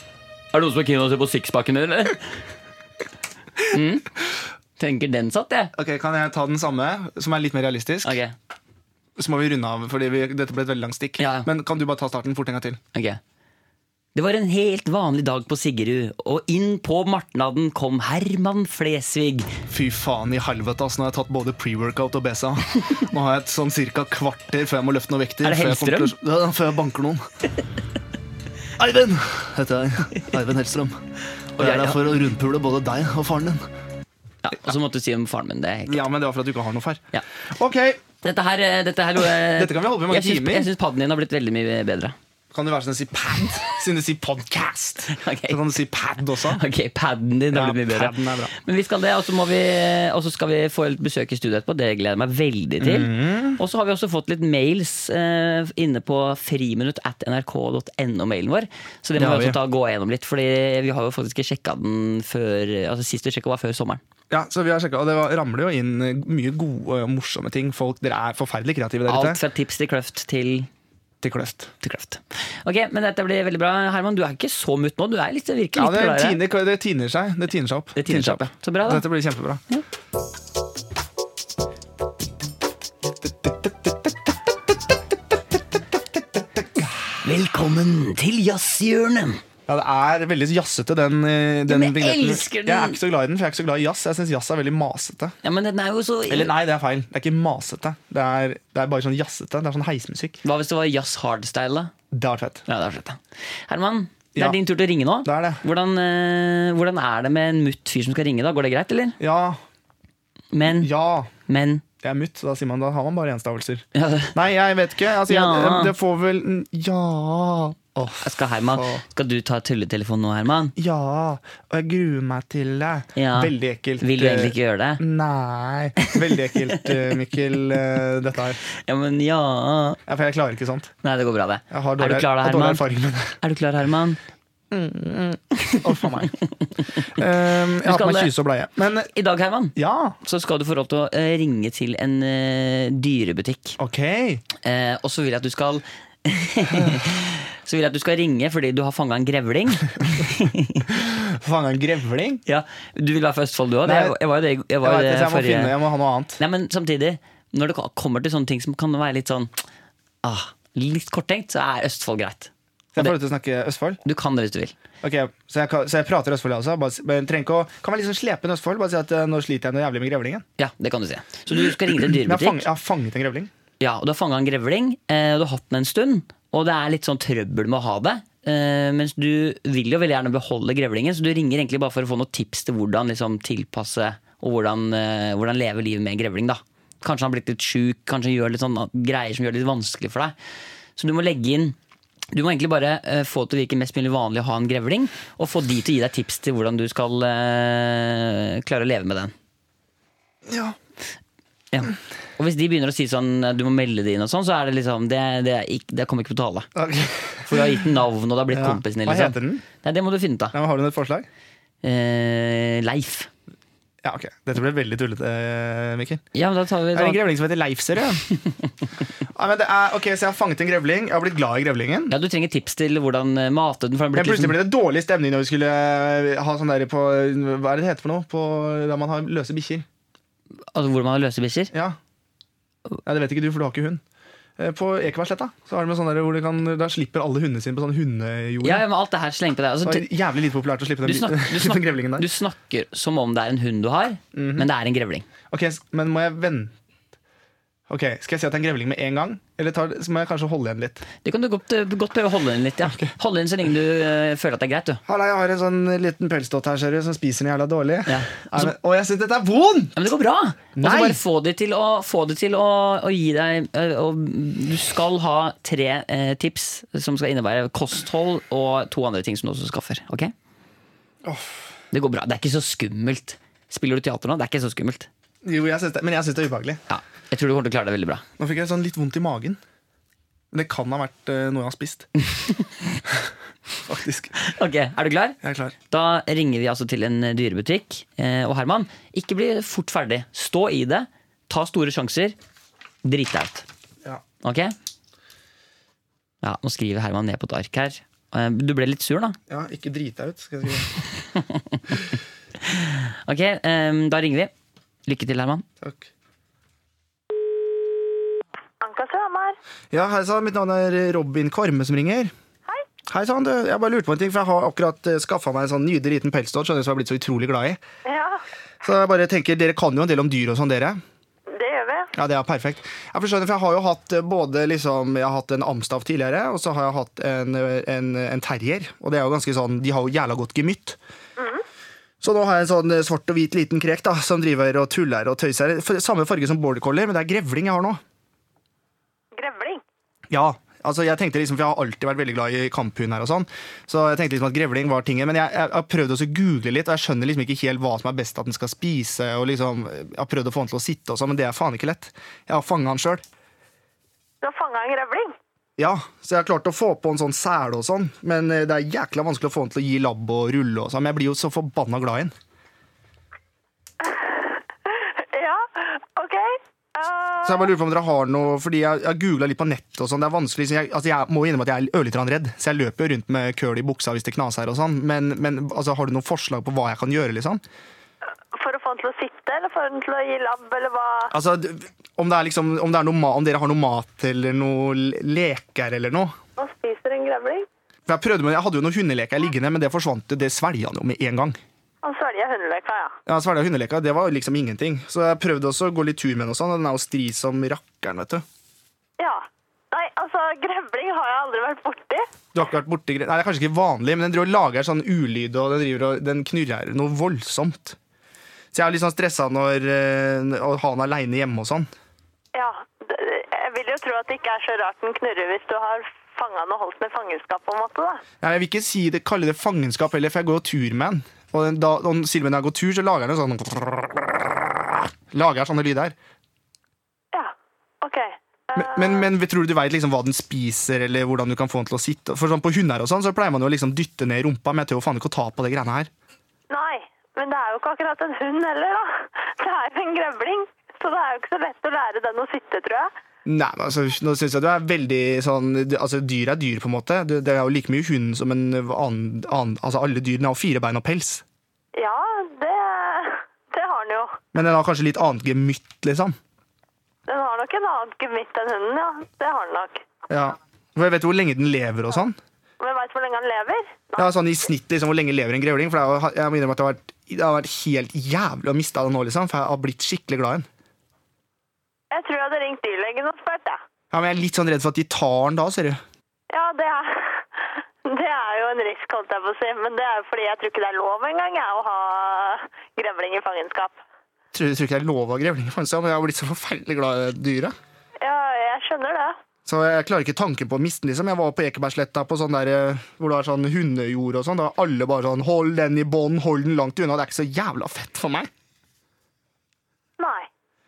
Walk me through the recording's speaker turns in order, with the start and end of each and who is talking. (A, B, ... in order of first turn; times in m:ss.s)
0:00.5-0:02.2 A
0:03.6-0:04.1 A
0:04.8-0:05.7 A
0:05.7-0:08.2 B
0:08.0-0:08.3 A
0:09.2-0:12.8 B
0:11.2-0:11.5 A
0:12.9-0:13.2 A
0:14.1-0:19.5 A
0:19.7-0:27.2 B
0:25.4-0:26.1 A
0:28.8-0:31.0 B
0:31.6-0:33.6 B
0:31.6-0:32.0 A
0:34.4-0:36.0 A
0:35.9-0:38.0 B
0:38.2-0:42.2 A
0:39.4-0:40.7 B
0:42.5-0:46.6 B
0:45.1-0:45.7 A
0:46.4-1:04.0 A
0:47.5-0:48.5 B
0:52.8-0:53.6 B
0:59.2-0:59.6 B
1:04.3-1:09.4 B
1:09.1-1:10.7 A
1:11.2-1:11.7 B
1:11.8-1:16.4 A
1:15.7-1:19.6 B
1:18.0-1:19.0 A
1:23.2-1:27.2 B
1:27.2-1:29.4 A
1:29.7-1:35.3 B
1:31.7-1:33.0 A
1:35.4-1:36.5 A
1:36.3-1:40.4 B
1:40.4-1:41.9 A
1:42.1-1:42.6 B
1:42.7-1:49.2 A
1:45.2-1:45.6 B
1:49.2-1:49.6 B
1:50.5-1:50.9 A
1:50.7-1:51.3 B
1:51.5-1:51.8 A
1:52.0-1:59.0 B
1:53.9-1:54.3 A
1:55.2-1:55.9 A
1:58.2-2:00.7 A
2:00.8-2:08.6 B
2:03.2-2:05.0 A
2:06.0-2:06.9 A
2:08.7-2:10.0 A
2:10.1-2:10.9 B
2:11.0-2:12.8 A
2:11.7-2:13.4 B
2:13.4-2:14.2 A
2:14.7-2:16.3 B
2:15.6-2:18.3 A
2:17.1-2:19.1 B
2:19.1-2:23.8 A
2:19.8-2:20.2 B
2:23.8-2:24.4 B
2:24.6-2:30.9 A
2:26.7-2:27.0 B
2:30.9-2:32.4 B
2:32.4-2:35.8 A
2:33.8-2:34.1 B
2:34.8-2:36.4 B
2:36.4-2:39.5 A
2:40.2-2:43.1 A
2:42.9-2:44.0 B
2:44.0-2:44.7 A
2:45.0-2:50.4 B
2:50.6-2:52.6 A
2:51.6-2:53.5 B
2:53.8-3:10.3 A
3:11.0-3:11.8 A
3:12.3-3:19.3 A
3:20.4-3:20.8 B
3:21.7-3:26.7 A
3:26.7-3:27.8 B
3:27.4-3:30.5 A
3:28.5-3:29.6 B
3:30.5-3:31.3 B
3:31.8-3:33.3 A
3:34.0-3:36.2 B
3:36.3-3:37.2 A
3:36.9-3:38.2 B
3:39.2-3:42.1 B
3:42.1-3:44.6 A
3:44.1-3:49.8 B
3:50.7-3:51.7 A
3:53.0-3:54.0 B
3:54.6-3:58.8 B
3:58.6-4:00.1 A
3:59.8-4:02.3 B
4:01.0-4:05.2 A
4:04.3-4:04.7 B
4:05.5-4:06.7 B
4:07.9-4:11.0 B
4:11.2-4:15.0 A
4:15.0-4:20.0 B
4:18.1-4:18.7 A
4:19.9-4:30.3 A
4:20.8-4:21.2 B
4:31.2-4:31.5 B
4:31.9-4:35.1 A
4:35.4-4:36.8 B
4:36.9-4:38.2 A
4:38.4-4:39.6 B
4:40.5-4:42.1 B
4:43.8-4:44.3 B
4:44.4-4:45.4 A
4:45.4-4:45.7 B
4:45.9-4:52.3 A
4:53.0-4:53.6 A
4:54.4-4:54.7 A
4:56.4-4:59.4 A
4:59.5-5:01.0 B
5:01.4-5:01.8 A
5:02.6-5:04.5 A
5:05.0-5:05.6 A
5:05.8-5:06.1 B
5:08.8-5:09.6 C
5:09.9-5:12.3 B
5:13.1-5:17.8 B
5:18.0-5:18.4 C
5:18.8-5:21.0 B
5:21.5-5:22.1 C
5:22.1-5:31.0 B
5:31.4-5:31.6 C
5:32.2-5:38.0 B
5:39.3-5:39.8 C
5:40.3-5:53.2 B
5:54.4-5:55.3 C
5:55.8-6:02.3 B
6:04.0-6:07.7 C
6:07.4-6:17.6 B
6:18.5-6:21.3 C
6:21.3-6:26.4 B
6:26.6-6:27.7 C
6:28.0-6:31.6 B
6:32.0-6:33.2 C
6:33.2-6:38.4 B
6:39.2-6:42.3 C
6:42.5-6:48.0 B
6:48.7-6:51.9 B
6:52.5-6:58.2 C
6:58.4-7:06.1 B
7:07.3-7:09.3 C
7:08.7-7:16.1 B
7:16.7-7:23.1 C
7:23.4-7:31.4 B
7:31.9-7:34.4 C
7:34.5-7:36.4 B
7:37.3-7:40.0 C
7:40.3-7:42.4 B
7:42.8-7:44.3 C
7:44.2-7:50.7 B
7:52.1-7:53.8 C
7:54.1-7:56.0 B
7:56.5-8:04.0 C
8:04.5-8:07.7 B
8:08.2-8:09.4 C
8:09.6-8:18.5 B
8:20.2-8:20.5 C